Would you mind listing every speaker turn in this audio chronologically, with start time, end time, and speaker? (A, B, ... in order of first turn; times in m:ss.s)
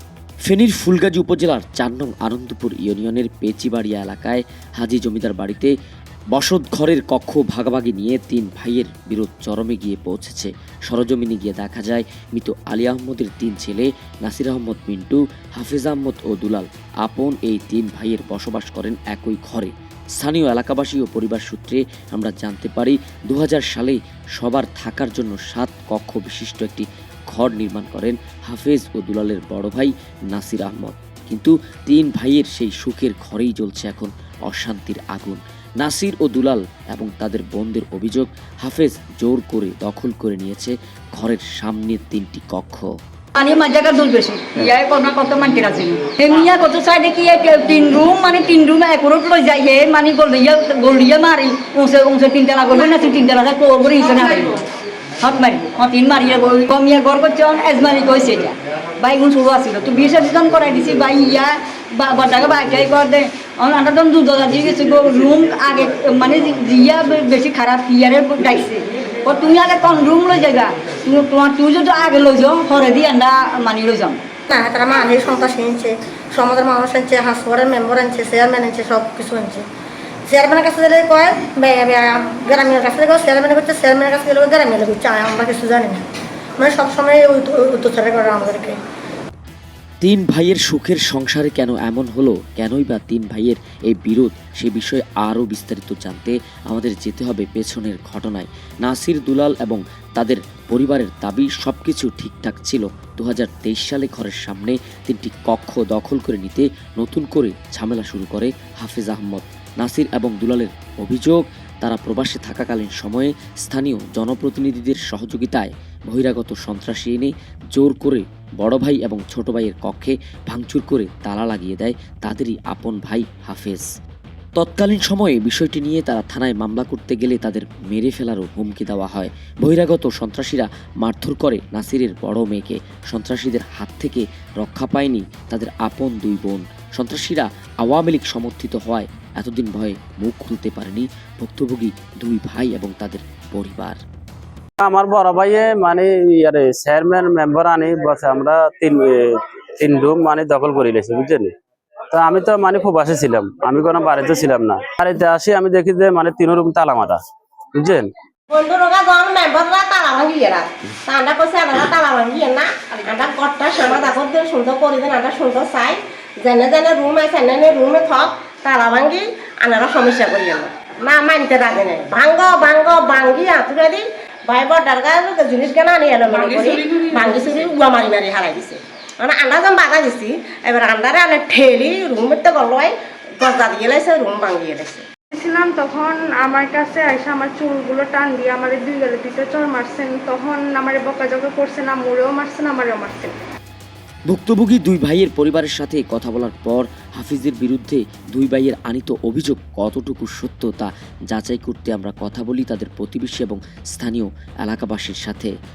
0:00.5-0:05.7 A
0:06.3-0:42.9 A
0:43.4-0:54.6 B
0:55.2-1:14.2 B
1:14.5-1:19.6 C
1:20.3-1:26.0 C
1:26.6-1:28.8 C
1:30.0-2:03.9 A
2:04.6-2:24.0 A
2:24.8-2:31.5 D
2:32.1-2:37.2 D
2:37.8-2:38.1 D
2:38.5-3:05.0 E
3:05.3-3:13.4 F
3:14.3-3:25.5 A